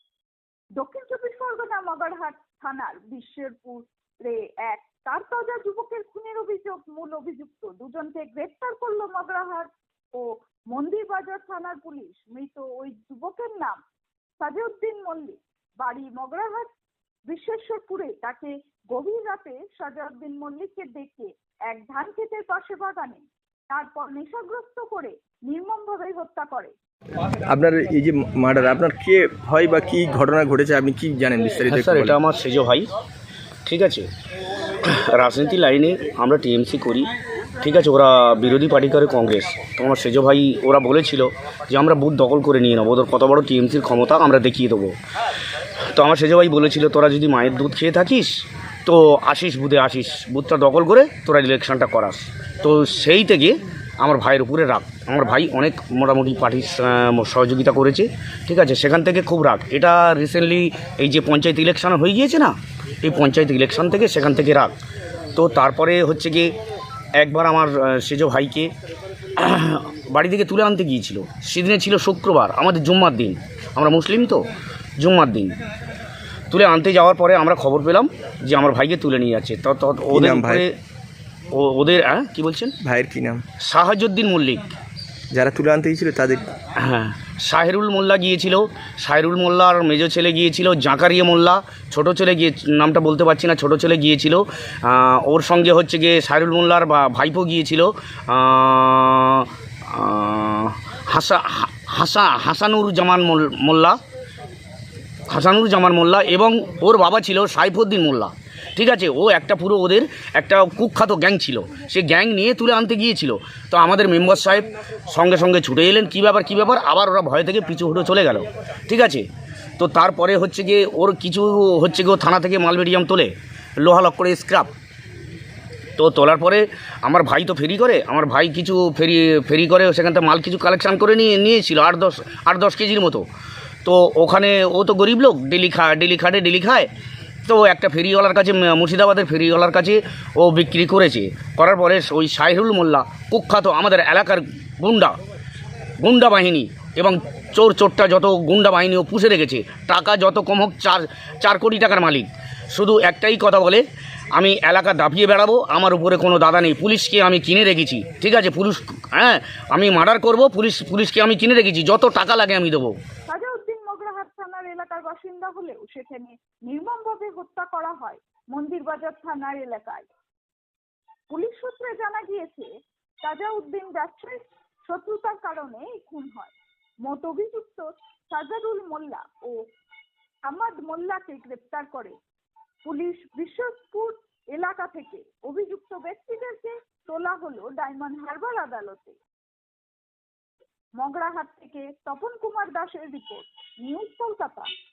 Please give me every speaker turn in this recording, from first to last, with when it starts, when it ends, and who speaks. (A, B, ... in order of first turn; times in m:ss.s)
0:00.8-0:13.8 A
0:14.4-0:16.7 A
0:17.3-0:26.7 A
0:27.5-0:32.2 B
0:31.7-0:32.9 C
0:33.6-0:34.1 C
0:34.8-0:45.0 C
0:45.9-1:04.7 C
1:05.4-1:06.5 C
1:07.2-1:08.7 C
1:09.4-1:14.4 C
1:15.0-1:15.6 C
1:16.5-1:20.7 C
1:20.1-1:20.7 B
1:21.5-1:22.7 C
1:22.8-1:23.4 B
1:23.6-1:24.7 C
1:25.3-1:26.5 B
1:26.8-1:44.0 C
1:45.3-1:59.2 C
1:59.8-2:04.7 C
2:06.0-2:13.2 C
2:13.8-2:16.9 C
2:17.4-2:25.2 C
2:26.0-2:33.8 C
2:34.3-2:43.0 C
2:43.3-2:50.1 A
2:51.3-2:52.7 A
2:53.2-2:59.6 A
3:00.5-3:02.2 A
3:02.8-3:09.2 A
3:11.0-3:14.7 A